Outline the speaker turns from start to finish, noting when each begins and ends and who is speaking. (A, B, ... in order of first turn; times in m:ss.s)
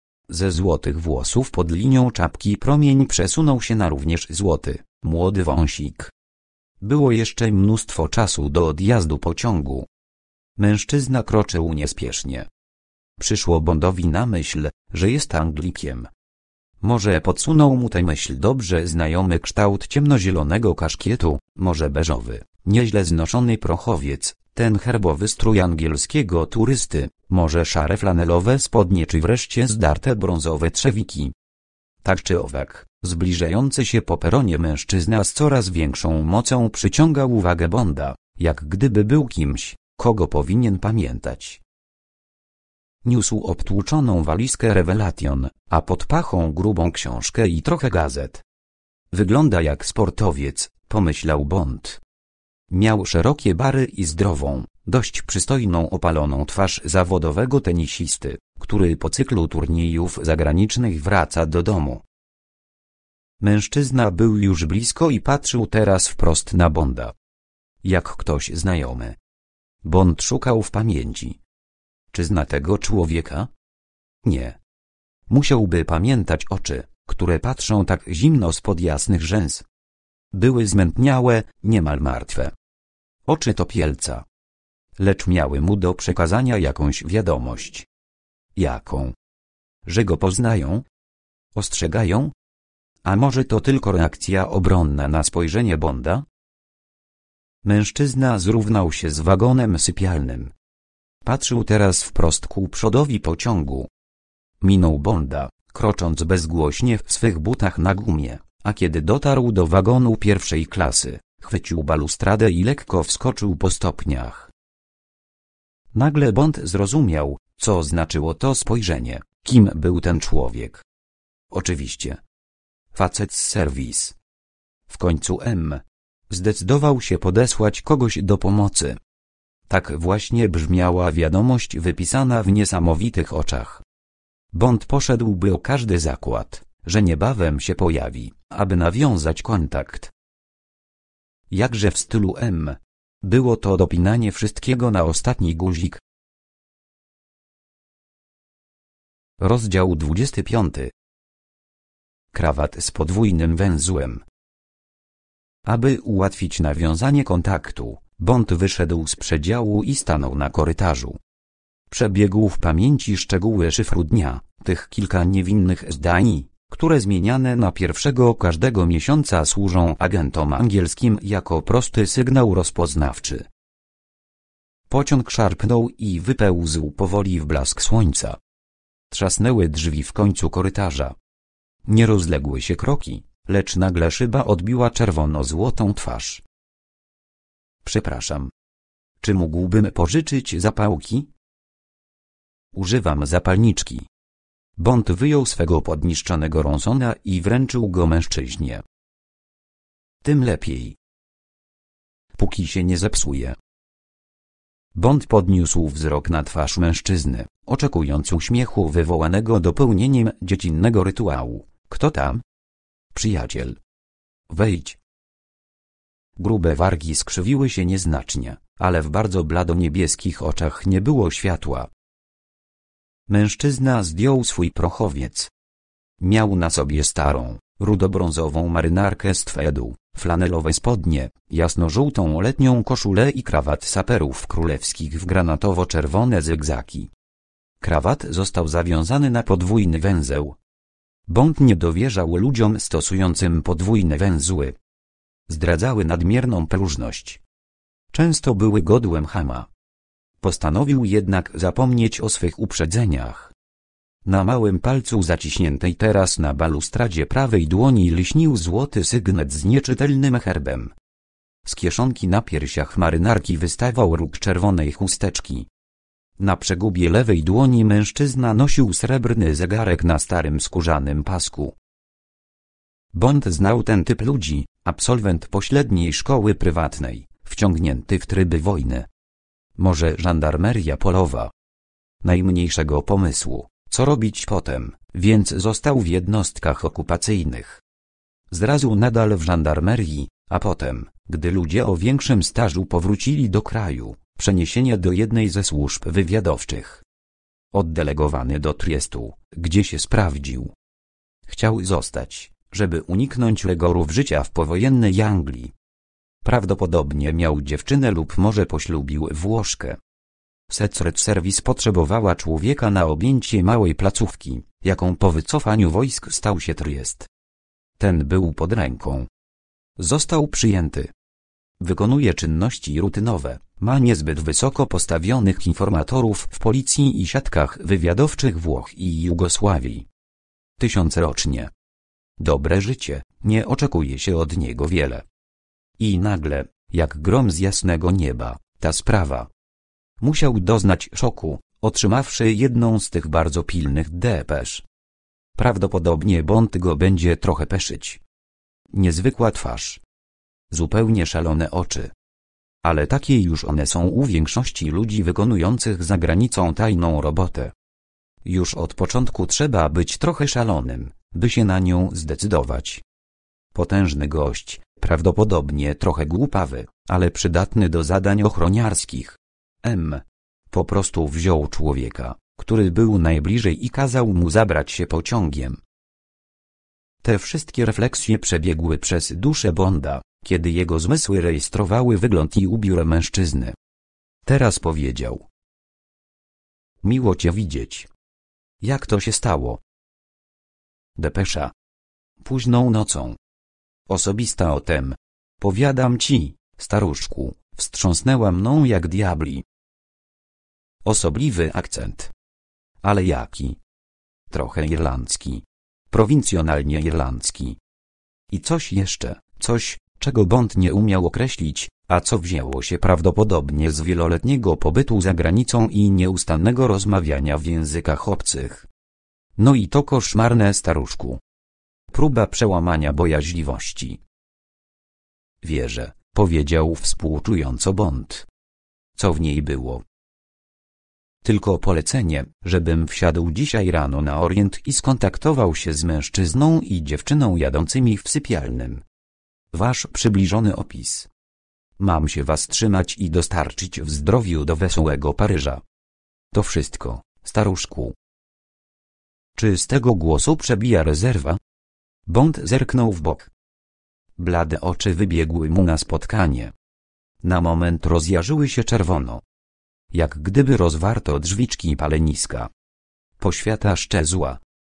0:00.3-0:06.1 A
0:06.8-0:09.9 A
0:10.6-0:12.5 A
0:13.2-0:16.1 A
0:16.8-0:31.3 A
0:32.0-0:41.6 A
0:43.0-0:48.4 A
0:49.1-0:52.0 A
0:52.7-1:02.0 A
1:03.4-1:07.1 A
1:07.8-1:09.2 A
1:09.8-1:11.4 A
1:12.1-1:13.5 A
1:14.2-1:14.6 A
1:15.3-1:19.6 A
1:20.3-1:22.5 A
1:23.3-1:24.2 A
1:25.0-1:27.9 A
1:28.6-1:29.1 A
1:29.8-1:30.8 A
1:31.5-1:32.3 A
1:33.0-1:36.2 A
1:37.6-1:40.5 A
1:41.2-1:43.9 A
1:44.6-1:54.5 A
1:55.9-2:00.8 A
2:01.5-2:02.2 A
2:02.9-2:04.2 A
2:04.9-2:09.0 A
2:09.7-2:13.8 A
2:14.5-2:20.1 A
2:21.5-2:26.0 A
2:29.4-2:30.9 A
2:32.3-2:34.2 A
2:35.6-2:41.2 A
2:41.9-2:53.5 A
2:54.9-2:58.4 A
2:59.1-3:01.2 A
3:01.8-3:06.4 A
3:07.8-3:08.5 A
3:09.2-3:11.3 A
3:12.7-3:14.1 A
3:14.8-3:18.8 A
3:20.2-3:21.0 A
3:22.4-3:23.6 A
3:24.9-3:32.4 A
3:33.1-3:33.8 A
3:34.5-3:35.0 A
3:36.4-3:41.9 A
3:43.3-3:45.5 A
3:46.2-3:57.1 A
3:57.8-4:00.6 A
4:01.3-4:04.8 A
4:05.5-4:07.4 A
4:08.1-4:09.7 A
4:10.4-4:13.5 A
4:14.2-4:20.9 A
4:21.6-4:25.7 A
4:26.4-4:31.8 A
4:33.1-4:39.1 A
4:39.8-4:41.5 A
4:42.2-4:47.8 A
4:48.5-4:57.0 A
4:57.7-5:00.7 A
5:01.5-5:05.7 A
5:06.4-5:10.0 A
5:10.7-5:17.3 A
5:18.0-5:19.3 A
5:20.0-5:21.1 A
5:21.8-5:30.1 A
5:30.8-5:31.7 A
5:32.4-5:35.2 A
5:36.0-5:39.5 A
5:40.2-5:44.8 A
5:45.6-5:48.2 A
5:48.9-5:50.0 A
5:50.7-5:52.1 A
5:52.8-5:57.7 A
5:58.4-6:03.0 A
6:03.7-6:15.8 A
6:17.2-6:23.8 A
6:24.4-6:25.4 A
6:27.0-6:28.1 A
6:28.8-6:29.8 A
6:31.2-6:31.7 A
6:32.4-6:33.4 A
6:34.1-6:39.6 A
6:41.0-6:42.3 A
6:43.0-6:43.8 A
6:44.5-6:47.8 A
6:48.5-6:58.9 A
6:59.6-7:01.4 A
7:02.1-7:04.2 A
7:05.6-7:08.5 A
7:09.1-7:10.0 A
7:11.4-7:19.0 A
7:19.7-7:21.3 A
7:22.0-7:25.8 A
7:26.5-7:28.2 A
7:29.6-7:31.6 A
7:32.3-7:33.5 A
7:34.4-7:36.7 A
7:37.4-7:39.4 A
7:40.1-7:42.7 A
7:43.4-7:44.6 A